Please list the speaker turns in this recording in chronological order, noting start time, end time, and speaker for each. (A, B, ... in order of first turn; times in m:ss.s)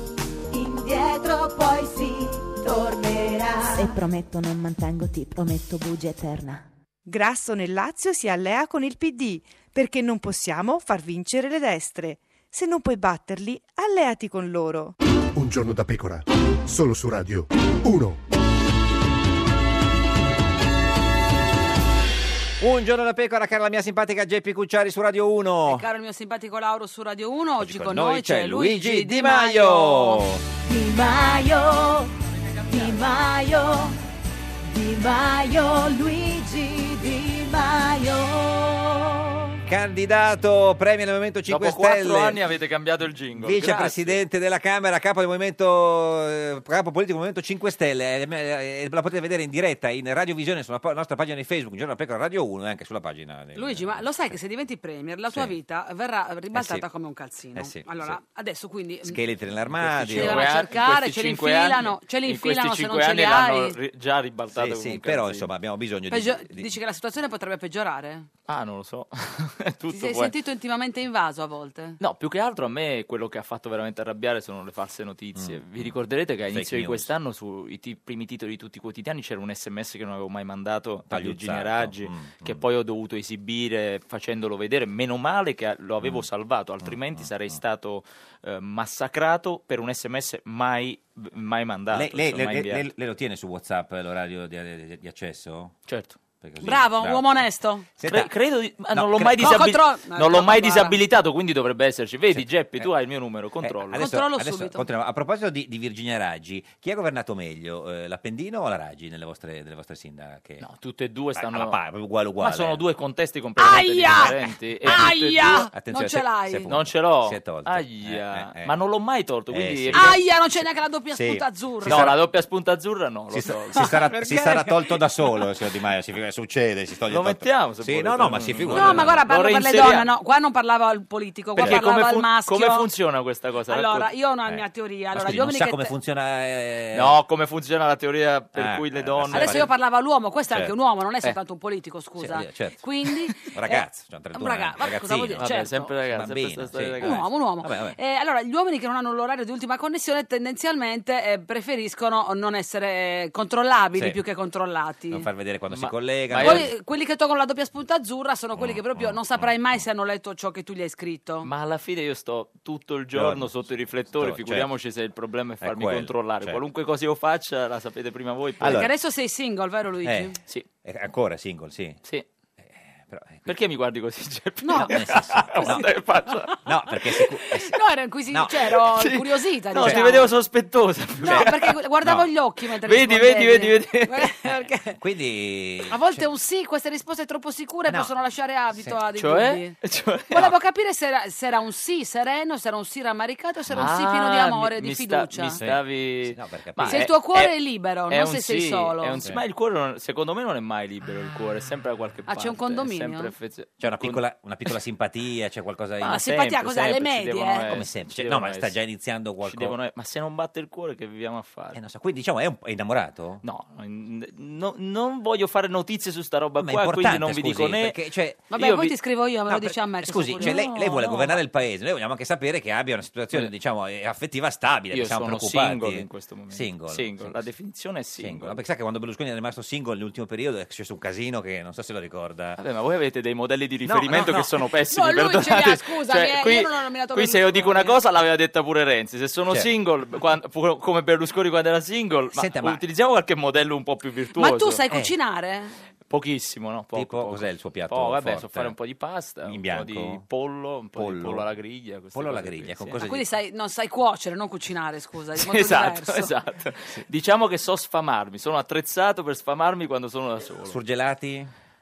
0:00.5-0:04.0 A
0:03.7-0:06.6 B
0:07.0-0:14.9 C
0:15.3-0:18.2 D
0:22.6-0:25.8 E
0:25.7-0:30.2 F
0:27.6-0:30.4 E
0:30.6-0:32.1 A
0:32.7-0:34.0 A
0:34.7-0:39.4 A
0:39.7-0:42.4 E
0:41.5-0:44.2 G
0:43.4-0:54.0 E
0:53.6-0:59.2 F
0:56.5-0:56.8 E
0:57.5-0:58.2 E
0:59.0-1:00.7 E
0:59.7-1:05.5 G
1:00.1-1:03.8 F
1:04.5-1:06.7 E
1:06.1-1:08.3 F
1:08.5-1:10.3 G
1:09.9-1:12.0 F
1:12.0-1:32.9 G
1:15.4-1:15.9 E
1:16.5-1:17.1 E
1:21.1-1:22.6 E
1:26.8-1:27.2 E
1:31.9-1:35.8 E
1:35.9-1:36.2 G
1:36.4-1:37.4 E
1:36.6-1:37.8 F
1:38.0-1:39.7 E
1:38.0-1:44.1 G
1:39.4-1:41.0 F
1:42.3-1:42.9 E
1:43.6-1:50.6 E
1:44.0-1:44.8 F
1:50.6-1:51.8 G
1:51.4-1:52.8 E
1:52.4-1:55.7 G
1:53.6-1:56.8 F
1:55.7-1:58.7 E
1:56.7-2:00.2 G
1:59.5-2:00.2 E
1:59.9-2:02.1 F
2:01.1-2:02.2 E
2:01.8-2:04.0 G
2:03.3-2:09.2 E
2:03.7-2:05.0 F
2:07.1-2:10.1 G
2:08.7-2:12.9 F
2:11.6-2:14.1 G
2:13.7-2:15.9 F
2:14.5-2:17.2 E
2:16.9-2:19.7 G
2:18.6-2:19.7 E
2:19.3-2:25.9 F
2:20.5-2:21.3 E
2:22.2-2:22.8 E
2:23.4-2:28.0 E
2:25.4-2:27.3 G
2:27.0-2:35.2 F
2:35.1-2:36.7 E
2:35.7-2:36.7 G
2:36.4-2:41.5 F
2:38.6-2:39.6 E
2:41.4-2:48.9 G
2:43.1-2:44.7 E
2:45.6-2:46.6 E
2:48.6-2:48.9 E
2:48.6-2:50.4 F
2:50.0-2:52.0 E
2:53.1-2:53.5 E
2:53.4-2:57.0 G
2:54.6-2:56.6 F
2:54.7-2:55.9 E
2:56.6-2:57.8 E
2:57.7-3:00.4 F
2:58.3-2:58.8 E
2:58.7-3:01.7 G
2:59.8-3:00.1 E
3:01.2-3:05.0 F
3:01.2-3:01.5 E
3:02.8-3:04.3 G
3:05.0-3:06.2 E
3:05.9-3:09.8 F
3:09.1-3:10.5 G
3:10.3-3:15.6 F
3:13.7-3:24.7 G
3:15.6-3:17.1 E
3:16.8-3:19.2 F
3:22.3-3:23.3 F
3:23.8-3:27.0 E
3:26.0-3:28.7 G
3:26.0-3:27.8 F
3:27.7-3:29.8 E
3:29.4-3:31.8 G
3:31.7-3:33.4 E
3:33.4-3:38.0 G
3:36.6-3:38.5 E
3:38.5-3:39.0 G
3:38.5-3:40.9 F
3:39.9-3:47.4 E
3:40.3-3:41.4 G
3:44.9-3:48.6 G
3:48.2-3:52.6 E
3:52.6-4:04.8 G
3:53.8-3:54.6 E
3:54.9-3:58.0 F
4:02.3-4:02.8 E
4:04.4-4:05.8 F
4:06.1-4:13.0 G
4:06.9-4:08.7 E
4:09.4-4:10.2 E
4:11.0-4:11.5 E
4:12.1-4:13.3 E
4:13.0-4:16.3 F
4:15.4-4:20.8 G
4:20.6-4:21.5 E